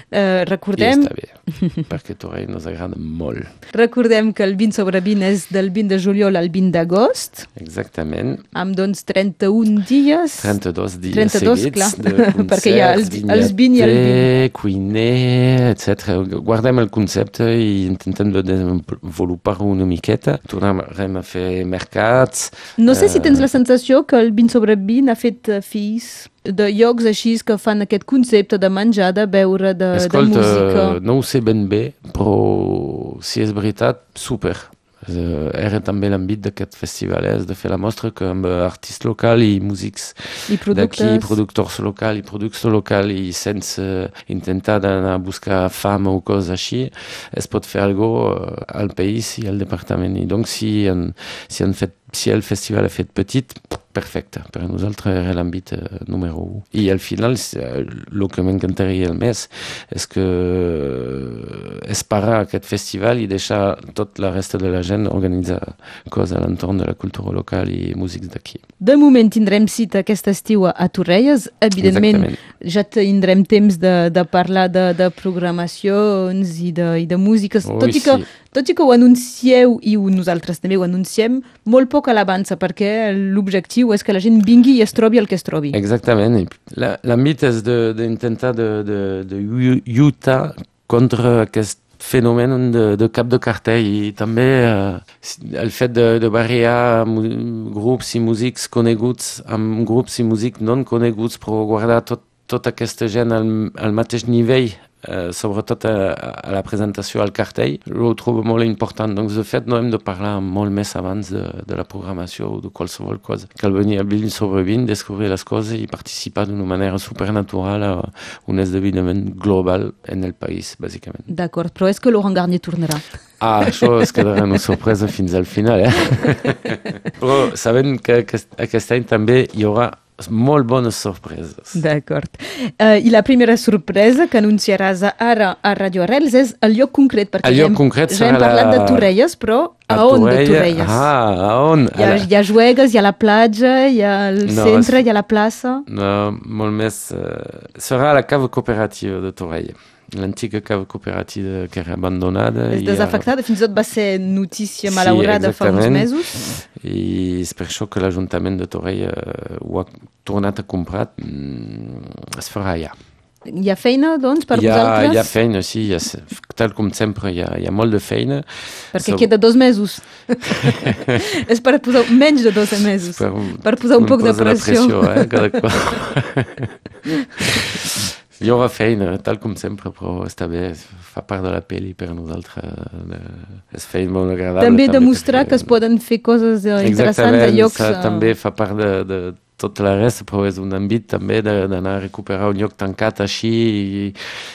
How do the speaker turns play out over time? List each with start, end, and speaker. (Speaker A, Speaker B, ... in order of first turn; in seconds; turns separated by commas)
Speaker A: 0.1-1.1, Speaker B: 0.8-3.5, Speaker A: 3.7-7.5, Speaker B: 7.6-8.4, Speaker A: 8.5-14.3, Speaker B: 10.4-23.5, Speaker A: 22.8-31.0, Speaker B: 29.9-68.6, Speaker A: 40.5-41.4, Speaker A: 68.8-85.8, Speaker B: 71.8-72.4, Speaker B: 77.6-78.3, Speaker B: 85.7-121.3, Speaker A: 121.3-123.0, Speaker B: 123.4-131.8, Speaker A: 131.8-141.1, Speaker B: 137.4-139.1, Speaker B: 139.9-142.3, Speaker A: 142.0-145.9, Speaker B: 144.4-145.1, Speaker B: 145.9-153.3, Speaker A: 152.7-156.5, Speaker B: 154.8-162.9, Speaker A: 163.5-165.3, Speaker B: 164.5-169.3, Speaker A: 168.9-175.6, Speaker B: 170.6-171.2, Speaker B: 173.0-176.8, Speaker A: 177.4-177.6, Speaker B: 177.4-185.8, Speaker A: 184.6-188.3, Speaker B: 186.8-194.2